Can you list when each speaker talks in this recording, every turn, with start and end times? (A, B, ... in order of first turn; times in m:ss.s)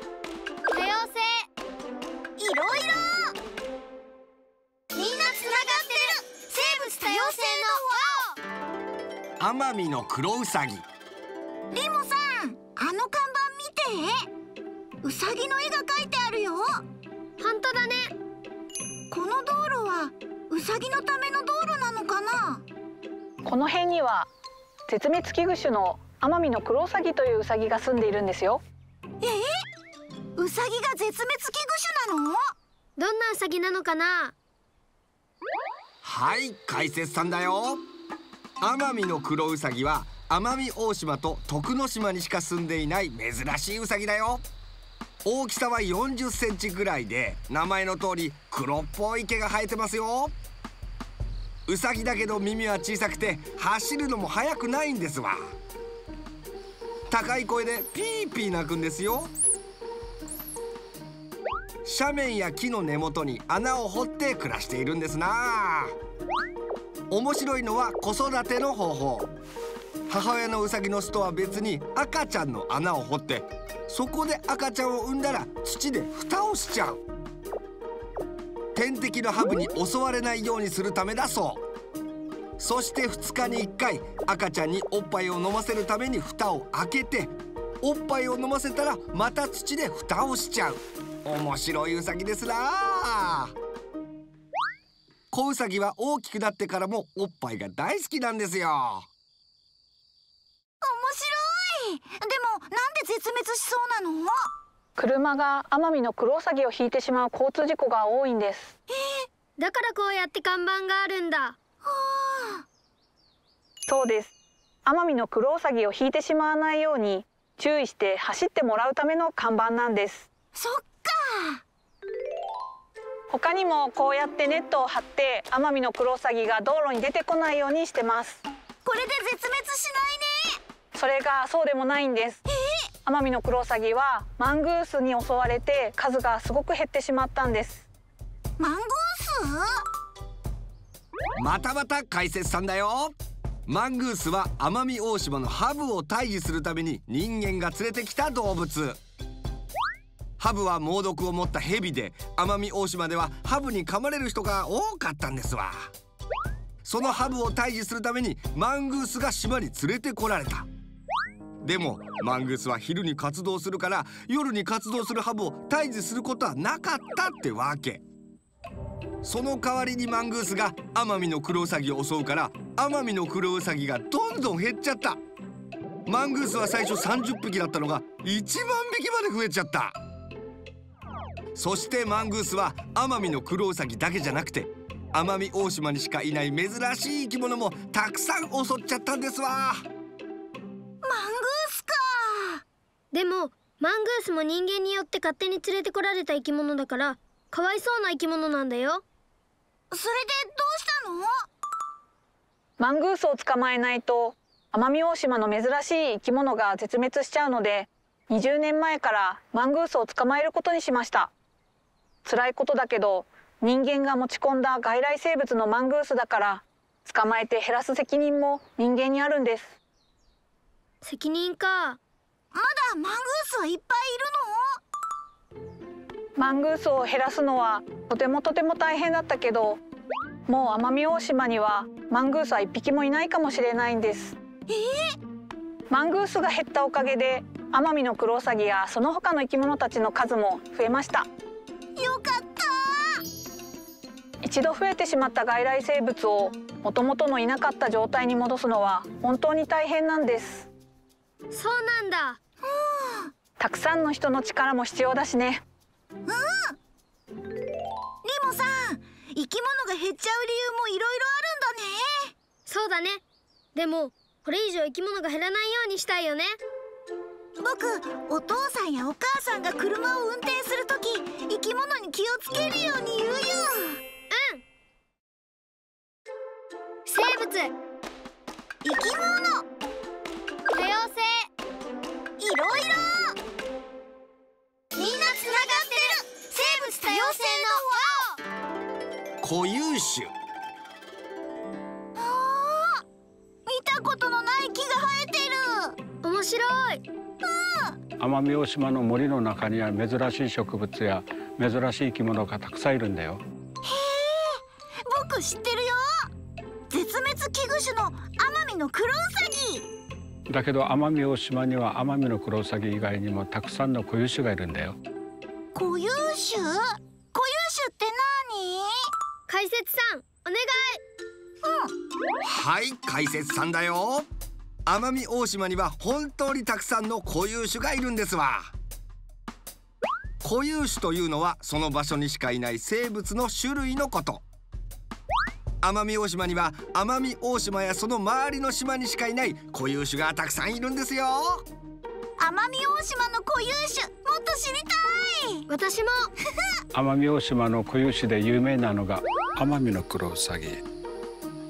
0:00.7-0:01.5 A
0:02.4-0:03.4 B
0:05.0-0:08.2 B
0:06.9-0:08.2 A
0:09.4-0:10.8 C
0:11.7-0:14.3 B
0:15.0-0:16.8 B
0:17.4-0:18.1 A
0:19.1-0:22.6 B
0:23.5-0:24.3 D
0:24.9-0:28.6 D
0:29.2-0:29.5 B
0:30.4-0:32.4 B
0:33.0-0:34.4 A
0:36.0-0:37.8 C
0:38.6-0:44.4 C
0:45.2-0:50.3 C
0:51.7-0:55.5 C
0:57.1-0:59.3 C
1:01.8-1:06.0 C
1:07.1-1:09.3 C
1:10.1-1:17.0 C
1:18.8-1:21.6 C
1:22.6-1:33.5 C
1:35.3-1:39.1 C
1:40.8-1:44.4 B
1:45.0-1:48.7 D
1:48.9-1:49.3 B
1:49.6-1:51.6 A
1:51.8-1:52.6 B
1:53.9-1:54.3 D
1:54.9-2:00.3 D
2:00.6-2:01.6 B
2:03.3-2:08.4 D
2:08.8-2:10.6 B
2:10.9-2:12.4 D
2:13.1-2:17.8 D
2:18.6-2:19.7 B
2:21.4-2:23.2 C
2:23.7-2:29.0 C
2:30.4-2:35.9 C
2:36.8-2:40.7 C
2:41.6-2:48.0 C
2:49.2-2:55.2 C
2:56.1-3:00.0 C
3:01.6-3:09.8 C
3:11.0-3:12.6 B
3:13.1-3:19.0 A
3:19.9-3:21.3 B
3:22.8-3:31.3 D
3:32.2-3:39.7 D
3:41.0-3:42.0 A
3:42.5-3:44.6 B
3:46.4-3:49.8 D
3:50.5-3:54.4 D
3:54.7-3:55.1 B
3:55.9-4:01.3 D
4:02.0-4:03.2 B
4:04.4-4:10.7 D
4:11.5-4:12.4 A
4:12.6-4:13.3 B
4:13.6-4:15.6 D
4:16.3-4:16.8 B
4:18.2-4:22.3 B
4:22.7-4:23.2 A
4:23.8-4:26.6 A
4:27.6-4:34.0 B
4:34.3-4:34.6 A
4:37.0-4:37.7 A
4:38.8-4:39.6 B
4:40.7-4:41.5 A
4:42.4-4:43.4 B
4:45.0-4:48.2 B
4:45.3-4:46.2 A
4:46.9-4:48.3 A
4:49.4-4:50.3 C
4:52.2-4:53.0 B
4:53.7-4:56.0 B
4:56.2-4:57.0 A
4:57.4-4:58.0 B
4:58.2-5:03.4 E
5:03.8-5:06.3 B
5:06.9-5:09.9 B
5:10.5-5:15.0 E
5:15.8-5:18.9 B
5:19.5-5:21.0 A
5:21.6-5:21.9 B
5:22.4-5:24.3 C
5:24.9-5:28.7 C
5:30.4-5:34.4 C
5:35.8-5:41.6 C
5:42.4-5:45.7 B
5:45.7-5:46.3 A
5:46.9-5:50.8 E